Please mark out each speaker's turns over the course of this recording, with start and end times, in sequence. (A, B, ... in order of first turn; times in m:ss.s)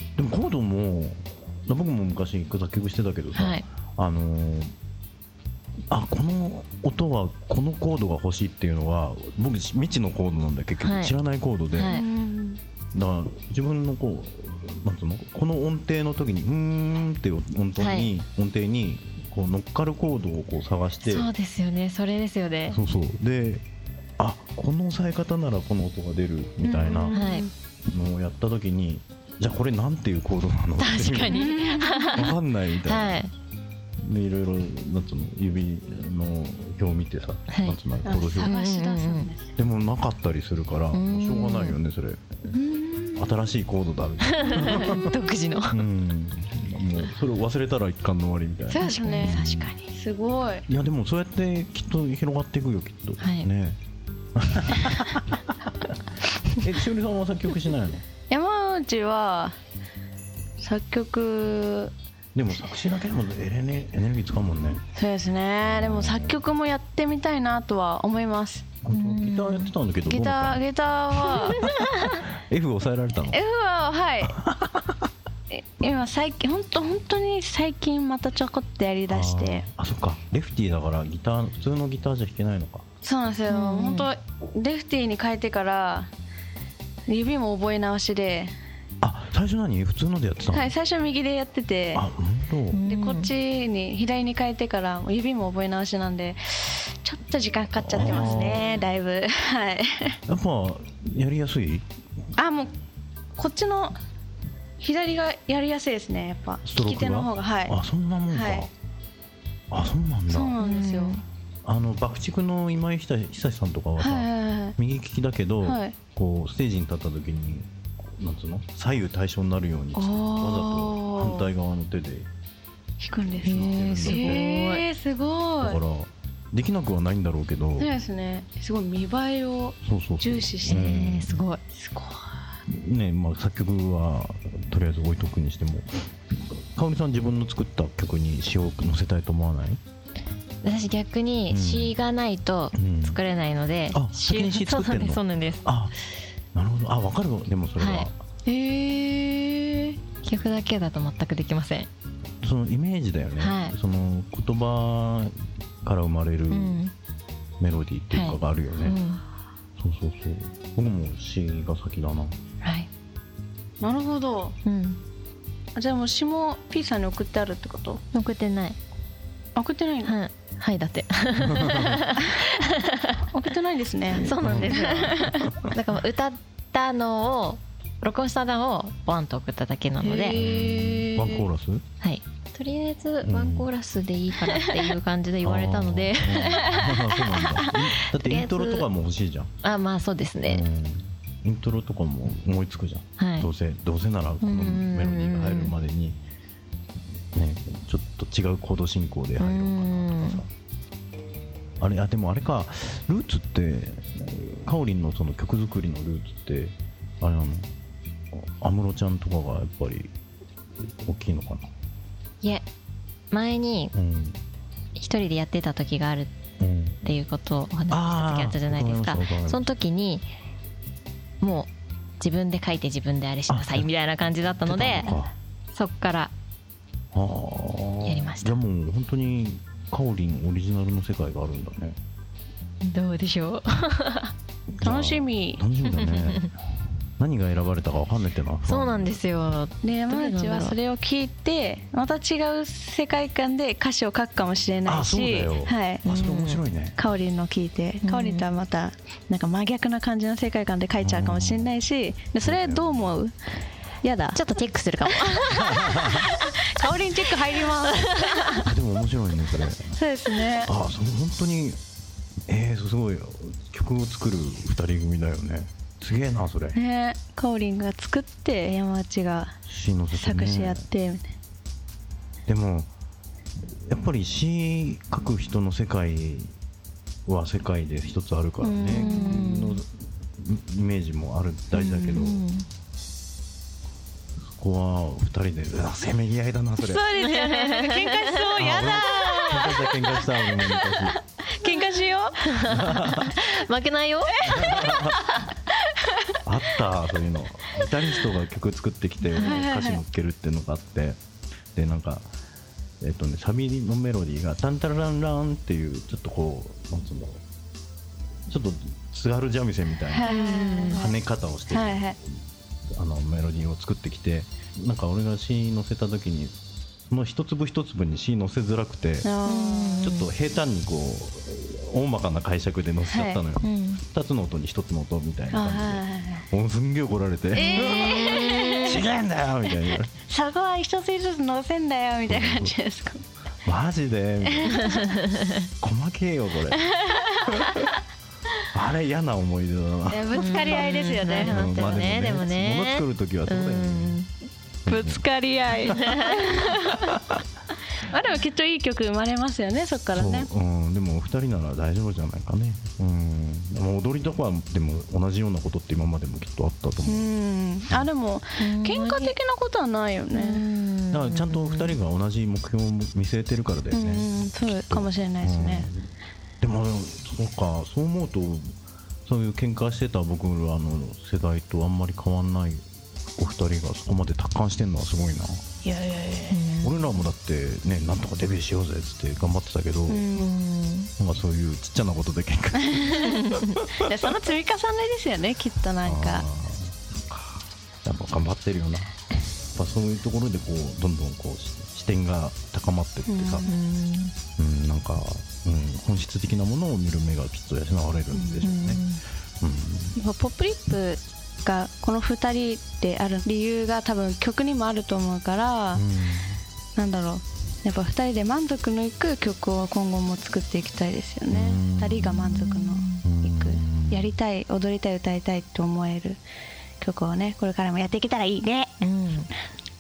0:00.2-0:04.7 A
0:03.4-0:03.6 B
0:05.9-0:12.0 A
0:10.8-0:11.1 B
0:11.7-0:12.0 B
0:11.8-0:12.6 C
0:12.9-0:21.3 A
0:17.8-0:18.1 B
0:21.0-0:22.8 B
0:22.7-0:23.6 A
0:24.2-0:27.2 A
0:26.6-0:27.5 C
0:27.1-0:27.5 B
0:27.9-0:31.5 A
0:30.8-0:33.3 B
0:31.3-0:32.3 C
0:32.1-0:33.2 A
0:34.0-0:38.5 A
0:38.0-0:39.5 C
0:38.4-0:39.3 B
0:39.6-0:42.6 A
0:40.9-0:41.8 B
0:42.5-0:43.3 C
0:43.2-0:45.1 A
0:44.3-0:45.8 B
0:45.7-0:49.7 A
0:48.7-0:50.6 C
0:48.8-0:49.4 B
0:50.7-0:53.8 A
0:53.2-0:53.5 B
0:54.4-0:56.0 A
0:56.5-0:58.0 A
0:58.3-0:59.6 C
1:00.6-1:01.9 C
1:02.4-1:04.8 A
1:05.0-1:08.6 C
1:05.6-1:06.4 A
1:08.8-1:10.6 A
1:08.9-1:09.7 B
1:10.1-1:11.6 C
1:11.3-1:13.4 A
1:11.6-1:12.2 B
1:13.3-1:14.4 C
1:14.4-1:15.1 A
1:15.5-1:19.7 C
1:19.1-1:22.8 A
1:23.0-1:26.1 C
1:23.5-1:24.1 B
1:27.1-1:28.5 C
1:29.0-1:30.7 A
1:30.5-1:32.1 C
1:32.0-1:32.8 A
1:32.7-1:33.3 B
1:32.8-1:40.2 C
1:37.8-1:38.7 A
1:38.0-1:38.6 B
1:40.3-1:41.9 A
1:42.4-1:42.8 C
1:43.4-1:44.0 C
1:44.8-1:48.7 C
1:46.6-1:48.7 A
1:49.7-1:50.6 A
1:50.3-1:51.2 C
1:50.6-1:51.2 B
1:51.6-2:02.3 A
1:54.0-1:54.8 C
1:55.6-1:56.0 C
1:59.9-2:01.5 C
2:03.0-2:05.8 C
2:03.4-2:04.5 A
2:03.4-2:04.8 B
2:05.6-2:07.9 A
2:07.8-2:11.1 C
2:09.8-2:11.4 A
2:10.7-2:11.6 B
2:11.7-2:12.4 C
2:12.7-2:19.8 A
2:20.6-2:25.7 B
2:21.5-2:22.0 A
2:22.8-2:23.2 A
2:23.9-2:26.0 A
2:26.5-2:28.2 A
2:27.8-2:28.1 B
2:28.5-2:29.4 C
2:28.8-2:31.9 B
2:32.4-2:36.8 A
2:33.4-2:33.8 B
2:36.5-2:36.9 B
2:37.6-2:39.0 A
2:38.1-2:39.2 B
2:39.8-2:42.4 A
2:42.6-2:42.9 B
2:43.8-2:44.6 C
2:44.6-2:45.0 B
2:45.8-2:48.0 C
2:48.1-2:48.8 B
2:49.6-2:50.2 C
2:50.0-2:53.2 B
2:51.5-2:52.0 A
2:53.3-2:55.5 C
2:54.1-3:00.4 B
2:54.4-2:55.8 A
3:00.0-3:01.4 C
3:00.3-3:01.8 A
3:02.0-3:06.8 B
3:03.2-3:03.7 A
3:05.4-3:09.5 A
3:06.6-3:07.4 C
3:07.8-3:08.9 B
3:09.6-3:10.6 B
3:10.4-3:16.2 A
3:13.2-3:13.5 B
3:14.4-3:15.7 B
3:17.3-3:20.5 A
3:19.4-3:20.4 B
3:21.8-3:27.7 A
3:28.3-3:30.1 A
3:30.8-3:31.7 A
3:33.3-3:33.9 B
3:34.0-3:34.4 A
3:35.0-3:36.3 B
3:36.6-3:37.1 A
3:37.0-3:40.3 B
3:37.9-3:39.6 A
3:41.4-3:45.2 B
3:43.5-3:43.9 A
3:44.6-3:45.3 A
3:45.7-3:46.3 B
3:47.1-3:52.0 A
3:48.0-3:48.6 B
3:52.8-3:54.3 B
3:54.8-3:56.5 A
3:54.8-3:55.6 C
3:55.9-3:56.5 B
3:57.2-3:59.2 A
3:58.7-4:00.8 B
3:59.8-4:06.0 C
4:04.9-4:07.0 A
4:06.0-4:06.6 B
4:07.0-4:13.4 C
4:08.0-4:08.4 B
4:11.0-4:11.8 A
4:12.4-4:13.2 A
4:14.0-4:14.4 C
4:14.3-4:16.4 B
4:15.1-4:18.7 C
4:15.5-4:16.3 A
4:17.9-4:18.6 B
4:18.6-4:20.0 A
4:19.9-4:20.7 C
4:20.5-4:21.8 A
4:22.5-4:26.8 A
4:26.7-4:29.6 C
4:29.7-4:30.9 A
4:30.1-4:31.3 C
4:32.5-4:32.9 A
4:33.7-4:36.5 A
4:37.3-4:42.5 A
4:38.6-4:39.6 C
4:38.9-4:39.8 B
4:41.7-4:42.7 B
4:44.5-4:47.1 A
4:46.8-4:52.6 C
4:47.2-4:49.7 B
4:48.6-4:51.2 A
4:52.5-4:54.9 B
4:52.6-4:53.4 A
4:54.4-4:55.2 A
4:54.5-4:55.2 C
4:56.4-5:01.2 A
4:59.4-5:00.0 C
5:01.8-5:02.3 A
5:03.0-5:07.4 A
5:08.5-5:12.4 A
5:10.1-5:11.1 C
5:10.2-5:11.1 B
5:11.7-5:12.2 C
5:12.9-5:16.5 A
5:17.1-5:19.3 A
5:19.2-5:20.1 C
5:19.5-5:20.3 B
5:20.0-5:30.1 A
5:23.0-5:23.4 C
5:23.6-5:24.0 B
5:25.5-5:26.5 C
5:27.5-5:29.0 C
5:27.6-5:29.0 B
5:29.9-5:33.2 C
5:32.3-5:32.7 A
5:33.6-5:35.0 A
5:34.4-5:35.0 C
5:34.8-5:35.7 B
5:35.8-5:36.8 A
5:36.7-5:37.8 C
5:38.7-5:40.9 A
5:40.1-5:41.7 C
5:40.4-5:44.3 B
5:41.4-5:44.2 A
5:44.9-5:45.2 A
5:44.9-5:47.1 C
5:45.9-5:46.6 B
5:46.8-5:47.4 A
5:48.0-5:50.5 C
5:50.1-5:57.3 A
5:57.0-6:00.6 C
5:58.6-5:59.4 B
6:00.4-6:02.0 B
6:01.1-6:06.0 A
6:03.9-6:05.9 C
6:06.6-6:08.8 A
6:09.3-6:12.8 A
6:13.4-6:15.6 A
6:15.8-6:16.7 C
6:16.5-6:17.1 B
6:16.8-6:20.3 A
6:20.1-6:20.5 C
6:20.4-6:21.1 B
6:21.2-6:23.6 A
6:22.8-6:23.3 C
6:23.3-6:23.7 B
6:23.9-6:26.5 C
6:26.0-6:29.1 A
6:29.8-6:33.7 A
6:33.3-6:33.7 C
6:33.6-6:34.3 B
6:34.6-6:39.0 A
6:38.3-6:38.7 C
6:38.6-6:39.2 B
6:39.6-6:40.2 A
6:40.2-6:46.0 C
6:45.9-6:46.6 A
6:47.0-6:56.4 C
6:51.5-6:52.4 A
6:52.3-6:53.2 B
6:53.2-6:54.3 A
6:57.0-6:59.0 C
6:59.0-6:59.5 B